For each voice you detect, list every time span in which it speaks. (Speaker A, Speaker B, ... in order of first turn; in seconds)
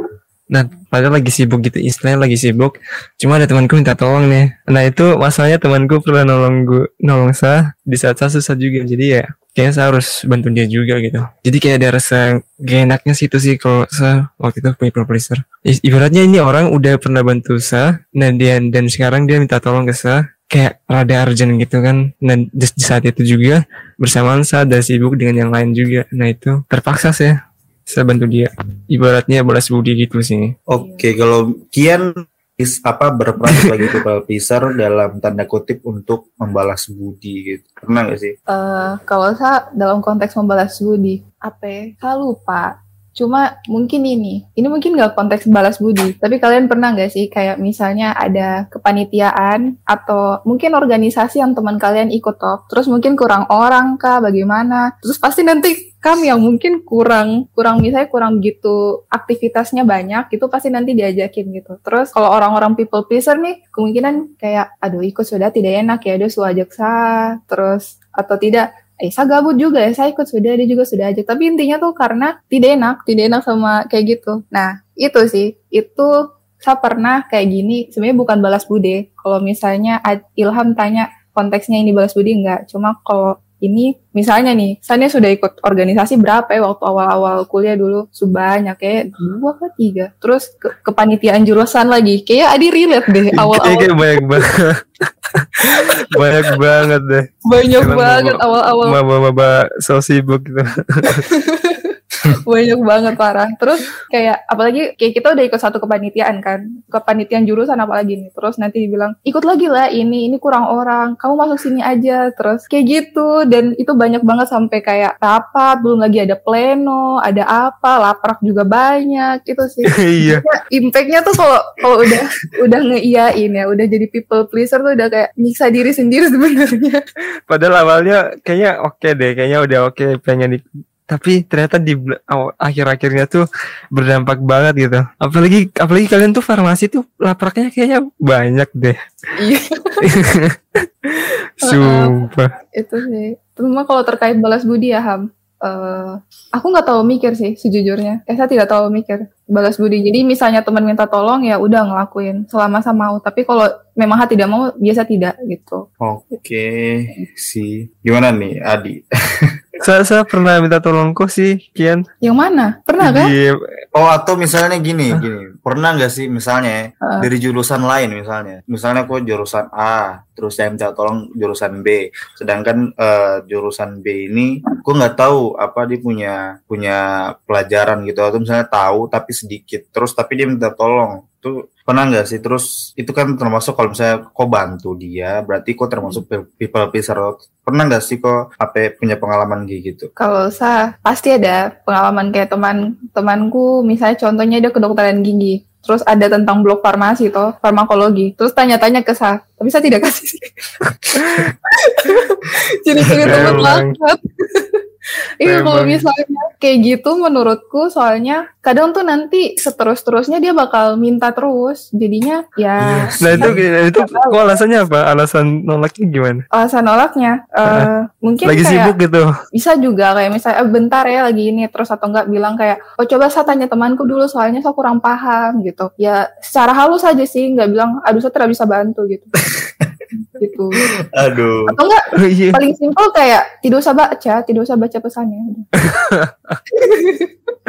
Speaker A: 0.5-27.3, 27.9-30.5, 33.5-33.8, 93.3-97.3, 97.8-101.2, 119.9-120.4, 127.5-139.0, 140.0-142.5, 159.8-162.0, 163.0-163.8, 203.2-203.9, 205.4-206.0, 213.2-216.4, 218.4-219.3, 232.2-232.6, 235.8-236.6
Speaker B: 30.7-38.3, 156.0-159.6, 163.9-190.1, 203.1-203.7, 212.8-213.6, 229.4-230.0, 231.1-231.7
Speaker C: 30.8-31.0, 38.5-94.4, 95.7-96.5, 97.5-99.0, 101.1-127.0, 139.4-140.0, 141.6-142.1, 142.7-155.8, 162.2-163.3, 190.2-200.5, 201.1-204.8, 205.4-214.6, 216.5-218.9, 219.5-229.3, 230.2-230.8, 231.7-235.7, 236.7-237.3